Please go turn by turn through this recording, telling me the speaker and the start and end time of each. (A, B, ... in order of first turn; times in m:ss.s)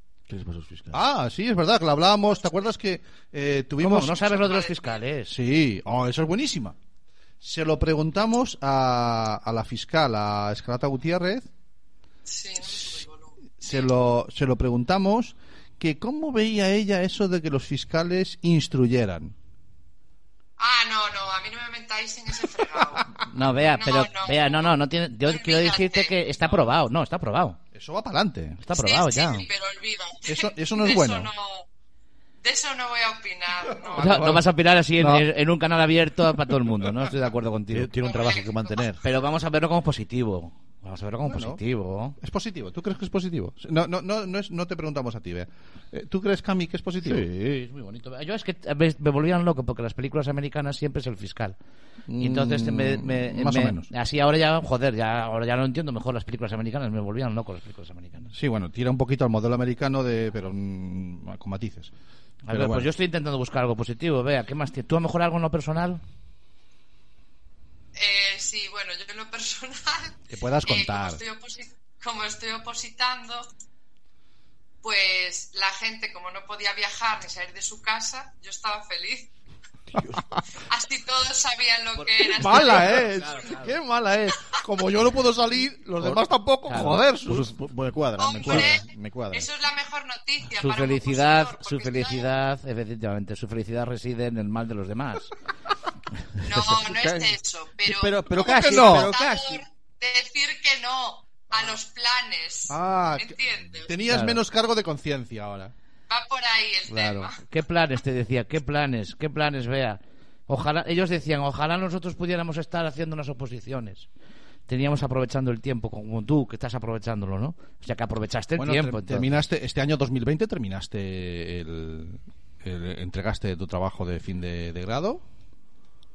0:00.3-0:01.0 A
0:00.9-0:04.3 B
0:03.8-0:05.3 C
0:04.3-0:05.0 D
0:05.3-0:06.7 B
0:07.4-0:11.5 B
0:12.2-0:13.9 D
0:13.6-0:19.3 B
0:20.6-0:23.1 D
0:23.3-0:27.6 C
0:23.7-0:26.2 D
0:27.7-0:28.6 B
0:28.6-0:29.5 C
0:28.7-0:31.7 D
0:30.3-0:31.3 B
0:32.4-0:34.2 D
0:33.7-0:34.5 B
0:34.0-0:37.9 C
0:35.0-0:35.2 B
0:37.7-0:39.0 A
0:38.0-0:38.9 D
0:39.0-0:42.2 C
0:41.2-0:41.6 B
0:42.2-0:47.3 B
0:47.0-0:51.6 C
0:52.1-0:53.9 B
0:52.2-0:58.3 C
0:58.3-1:01.9 B
1:02.4-1:06.0 C
1:02.5-1:02.9 B
1:08.0-1:13.5 D
1:10.3-1:11.2 B
1:14.8-1:19.3 D
1:19.9-1:20.2 A
1:20.7-1:23.1 D
1:22.2-1:23.7 C
1:22.3-1:27.5 B
1:26.0-1:29.5 A
1:26.7-1:27.0 C
1:28.2-1:32.3 D
1:28.4-1:28.7 B
1:30.6-1:35.3 C
1:36.4-1:43.9 D
1:36.5-1:39.6 A
1:38.3-1:39.3 B
1:42.7-1:45.7 B
1:44.1-1:44.4 C
1:46.1-1:47.4 D
1:46.9-1:54.1 C
1:54.7-1:59.4 C
1:58.6-2:05.2 B